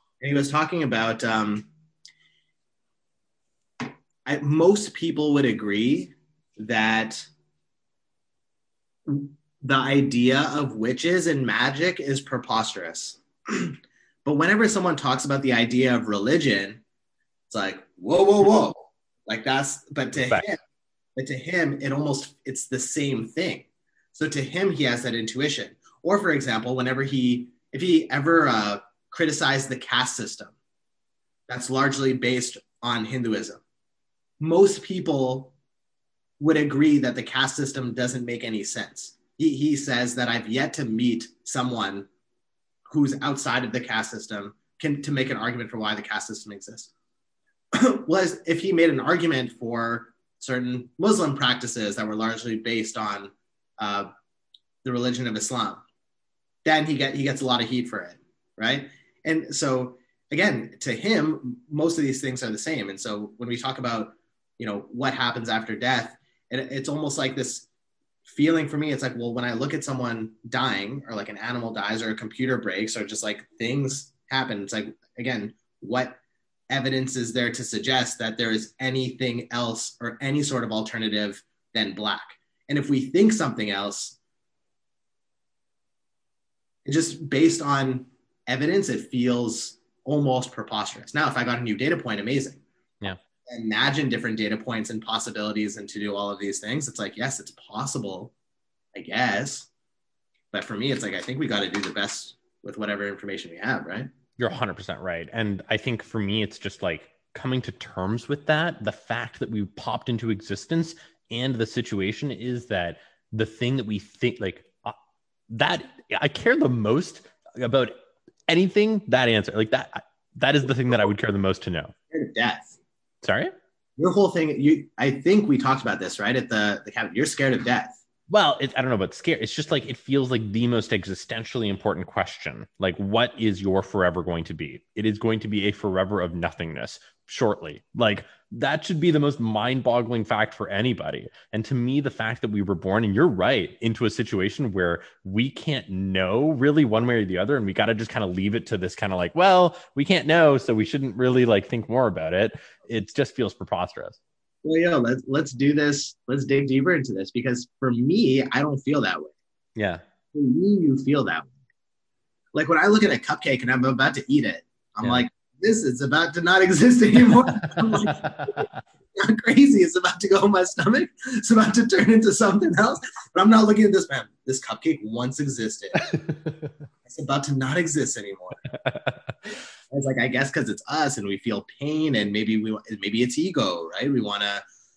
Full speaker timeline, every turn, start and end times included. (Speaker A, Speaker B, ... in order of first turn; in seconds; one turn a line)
Speaker A: 0.2-1.7
Speaker A: 4.2-7.3
Speaker A: 9.1-16.8
Speaker A: 17.5-20.6
Speaker A: 21.2-30.5
Speaker A: 31.5-33.6
Speaker A: 34.4-35.5
Speaker A: 36.4-42.1
Speaker A: 42.9-46.9
Speaker A: 47.7-54.1
Speaker A: 54.8-55.8
Speaker A: 56.6-67.7
Speaker A: 68.3-84.2
Speaker A: 86.8-92.6
Speaker A: 93.5-98.3
Speaker A: 98.9-99.7
Speaker A: 100.5-104.1
Speaker B: 104.4-115.0
Speaker B: 115.5-118.0
Speaker B: 118.5-121.9
Speaker A: 122.1-122.8
Speaker B: 123.2-123.5
Speaker A: 124.0-128.0
Speaker B: 128.3-154.2
Speaker A: 154.6-159.3
Speaker B: 159.8-160.0
Speaker A: 160.3-161.5
Speaker A: 162.5-176.2
Speaker B: 167.6-168.8
Speaker B: 176.1-176.7
Speaker A: 177.1-178.7
Speaker B: 178.7-179.2
Speaker A: 179.9-184.6